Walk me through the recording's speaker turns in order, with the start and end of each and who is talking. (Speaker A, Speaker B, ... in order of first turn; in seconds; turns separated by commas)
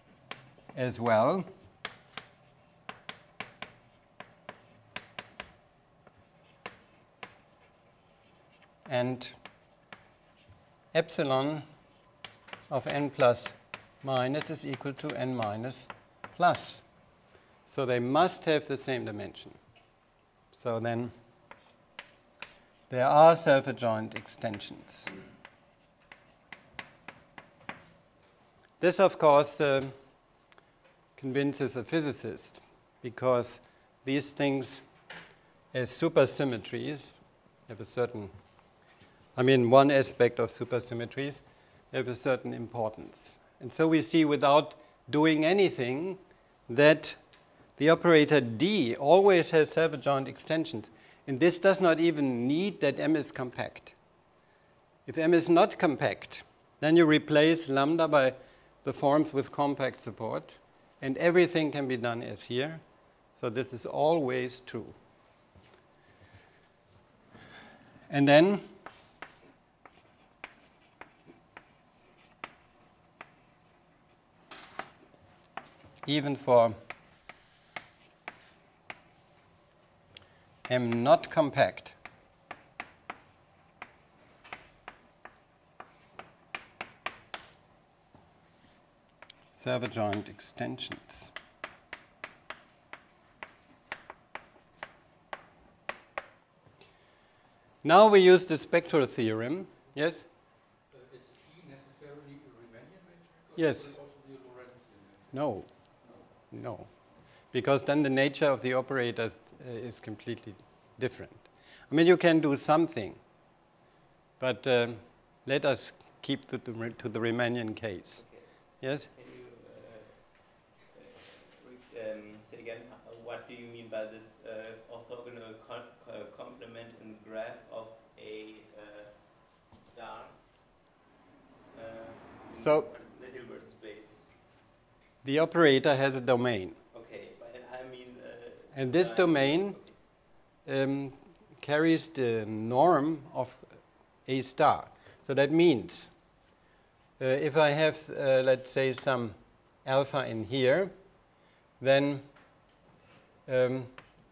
Speaker A: 0.8-1.5, Speaker A: 8.9-9.3, Speaker A: 10.9-11.6, Speaker A: 12.7-16.8, Speaker A: 17.7-19.6, Speaker A: 20.5-21.1, Speaker A: 22.9-25.1, Speaker A: 28.8-29.9, Speaker A: 31.2-34.8, Speaker A: 35.7-38.3, Speaker A: 39.4-47.2, Speaker A: 47.8-54.0, Speaker A: 55.1-62.8, Speaker A: 63.4-64.9, Speaker A: 68.1-68.6, Speaker A: 76.1-76.8, Speaker A: 80.7-82.0, Speaker A: 89.5-91.3, Speaker A: 97.8-100.2, Speaker B: 100.9-105.3, Speaker A: 103.6-103.9, Speaker A: 105.3-105.7, Speaker A: 106.5-106.9, Speaker A: 107.5-113.2, Speaker A: 114.4-118.2, Speaker C: 118.2-118.5, Speaker A: 118.8-119.1, Speaker C: 119.1-120.2, Speaker C: 120.9-129.1, Speaker C: 129.9-130.4, Speaker C: 131.7-134.3, Speaker A: 132.6-132.9, Speaker A: 135.2-136.8, Speaker C: 136.9-140.0, Speaker A: 138.7-139.8, Speaker A: 140.7-143.7, Speaker A: 144.3-146.1, Speaker A: 147.2-150.9, Speaker A: 151.8-152.2, Speaker A: 153.5-153.9